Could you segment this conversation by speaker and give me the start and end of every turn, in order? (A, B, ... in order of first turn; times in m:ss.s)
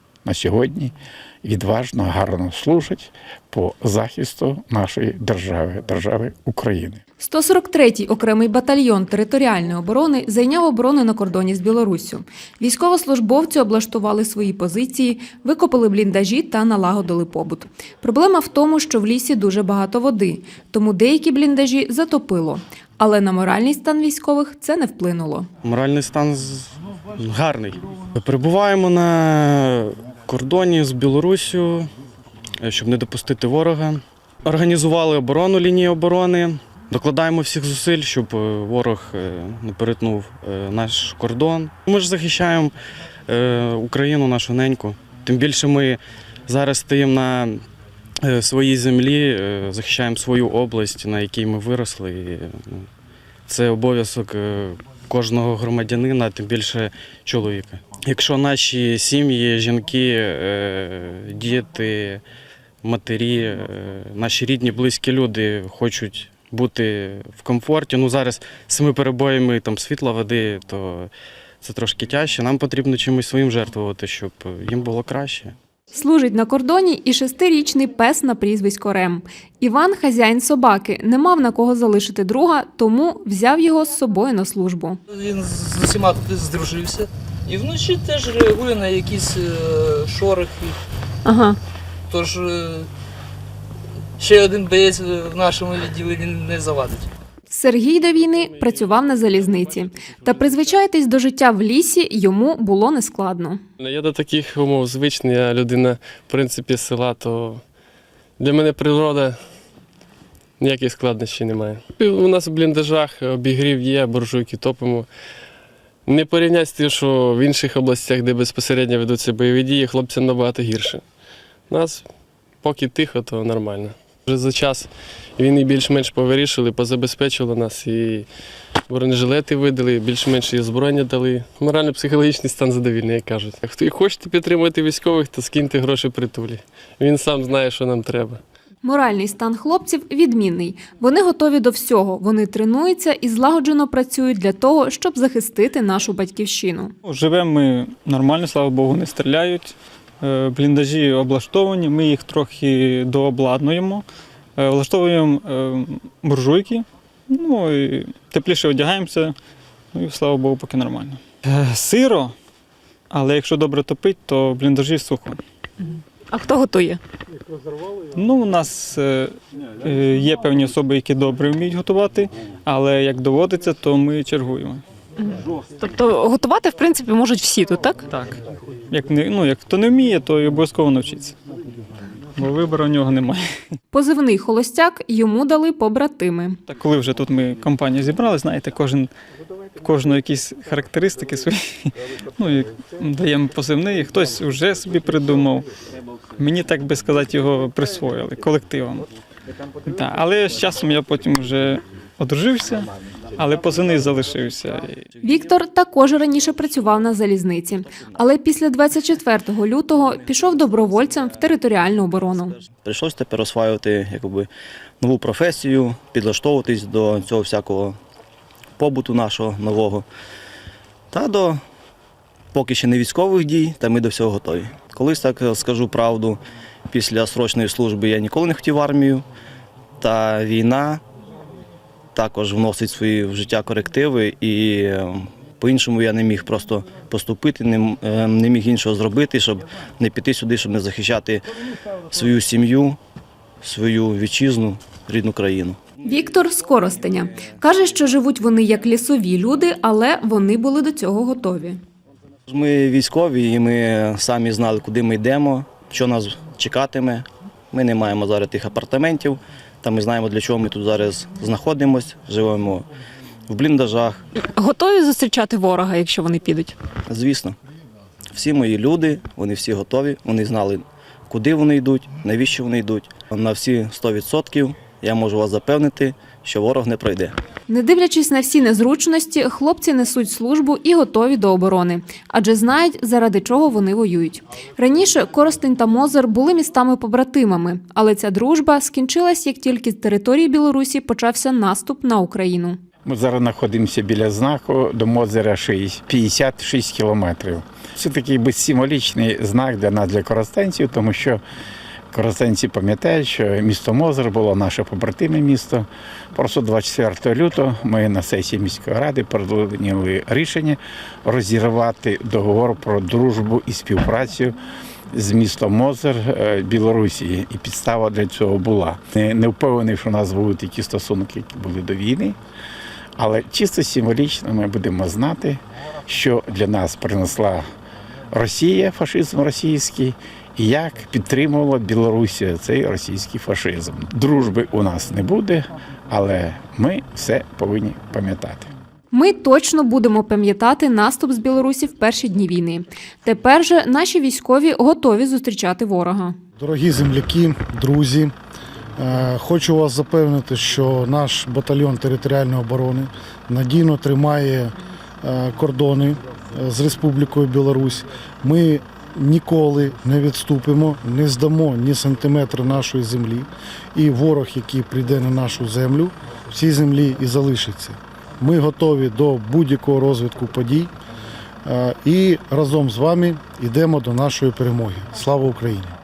0:00.2-0:07.0 A
0:07.2-0:25.5 B
0:25.6-0:31.9 C
0:32.6-0:42.8 C
0:43.3-0:47.6 C
0:48.2-0:52.9 C
0:53.5-1:02.2 C
1:02.8-1:11.1 C
1:11.6-1:15.6 C
1:15.9-1:25.0 B
1:25.1-1:30.8 D
1:31.2-1:31.6 B
1:32.1-1:32.9 D
1:34.2-1:37.1 D
1:37.5-1:43.6 B
1:43.8-1:47.6 E
1:48.4-1:49.4 E
1:50.6-1:55.1 E
1:56.1-2:01.0 E
2:01.7-2:02.0 E
2:02.6-2:08.3 E
2:08.9-2:18.4 E
2:18.8-2:26.9 B
2:27.0-2:34.0 F
2:34.6-2:39.4 F
2:39.9-2:42.4 F
2:43.1-2:45.4 F
2:46.3-2:47.0 G
2:48.1-2:54.8 F
2:55.3-2:58.0 G
2:58.0-3:01.4 F
3:02.4-3:03.5 F
3:03.9-3:06.6 B
3:06.7-3:09.1 F
3:09.8-3:15.7 F
3:16.4-3:19.1 F
3:19.9-3:25.0 F
3:25.2-3:32.6 B
3:32.7-3:38.0 H
3:38.8-3:40.1 H
3:41.1-3:41.6 H
3:42.5-3:49.2 H
3:50.0-3:51.0 H
3:52.2-4:01.4 H
4:02.1-4:03.0 H
4:03.6-4:05.9 H
4:06.0-4:11.8 B
4:12.5-4:22.9 H
4:23.5-4:24.3 H
4:24.5-4:26.7 G
4:27.1-4:27.6 H
4:28.3-4:37.4 H
4:37.7-4:52.8 B
4:53.0-5:01.4 A
5:02.1-5:14.6 A
5:15.1-5:22.4 A
5:23.2-5:27.7 A
5:28.3-5:38.7 A
5:39.1-5:46.4 B
5:46.6-5:48.3 I
5:49.0-6:10.9 I
6:11.7-6:15.9 I